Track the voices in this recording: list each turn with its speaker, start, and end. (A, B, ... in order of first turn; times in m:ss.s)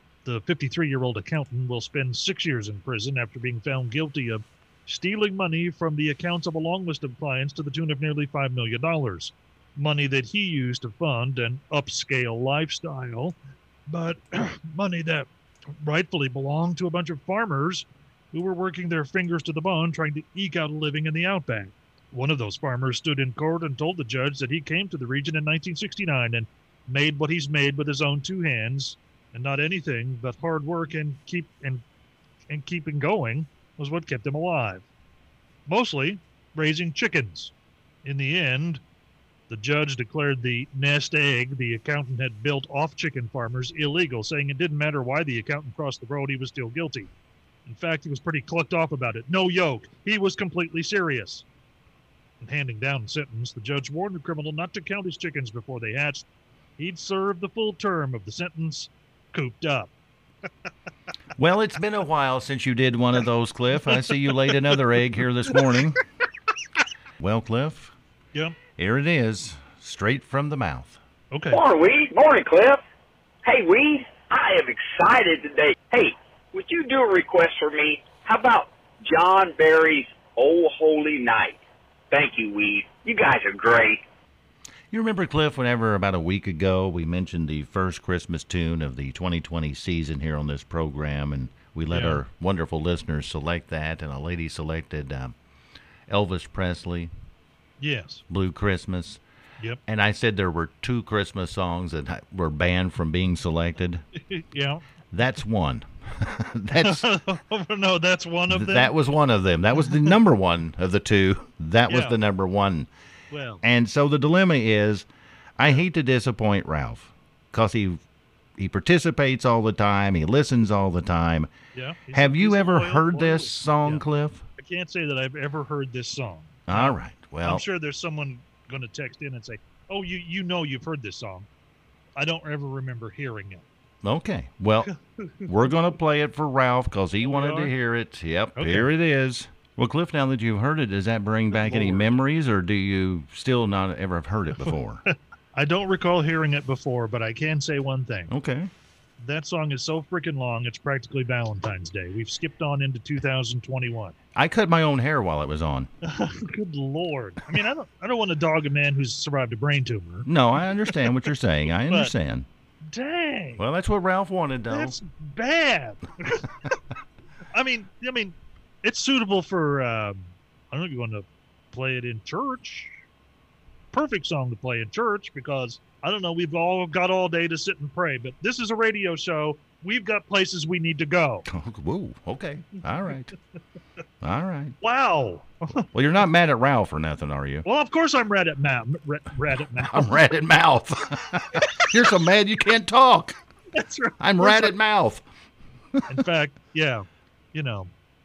0:00.2-0:13.4 A
0:13.9-0:15.3 A
0:15.8-0:31.8 A
0:32.5-0:34.8 A
0:35.7-0:37.5 A
0:38.0-0:38.8 A
0:39.5-0:47.1 A
0:47.7-0:51.4 A
0:52.4-0:56.3 A
0:56.8-0:59.9 A
1:01.4-1:06.0 B
1:07.2-1:07.9 B
1:08.8-1:11.0 B
1:11.3-1:11.6 A
1:11.5-1:12.8 C
1:13.4-1:21.6 C
1:22.1-1:24.0 C
1:24.9-1:35.4 B
1:31.9-1:32.2 A
1:36.1-1:37.1 B
1:37.8-1:38.2 A
1:38.3-1:39.2 B
1:39.9-1:44.0 B
1:44.2-1:44.8 A
1:45.1-1:47.1 B
1:46.8-1:48.9 A
1:48.5-1:52.9 B
1:51.9-1:52.2 A
1:53.3-1:53.6 A
1:53.6-1:55.1 B
1:55.6-1:58.0 B
1:58.6-2:01.5 B
2:01.7-2:04.0 A
2:02.1-2:04.4 B
2:04.6-2:11.5 A
2:06.7-2:07.6 B
2:12.2-2:13.6 A
2:14.0-2:14.9 B
2:14.8-2:15.5 A
2:15.5-2:25.0 B
2:17.2-2:17.7 A
2:18.6-2:18.9 A
2:21.6-2:22.1 A
2:25.1-2:28.3 A
2:28.3-2:28.7 B
2:29.2-2:34.2 A
2:34.4-2:35.9 B
2:36.0-2:40.3 A
2:40.3-2:42.5 B
2:41.9-2:42.1 A
2:42.9-2:43.6 A
2:43.6-2:45.0 B
2:44.7-2:46.5 A
2:47.5-2:53.0 A
2:53.9-3:01.5 A
3:01.5-3:03.3 B
3:04.2-3:04.8 B
3:04.8-3:05.9 A
3:05.9-3:07.7 B
3:07.6-3:10.2 A
3:09.8-3:13.4 B
3:13.8-3:14.8 A
3:14.2-3:15.3 B
3:16.0-3:16.2 B
3:16.1-3:17.9 A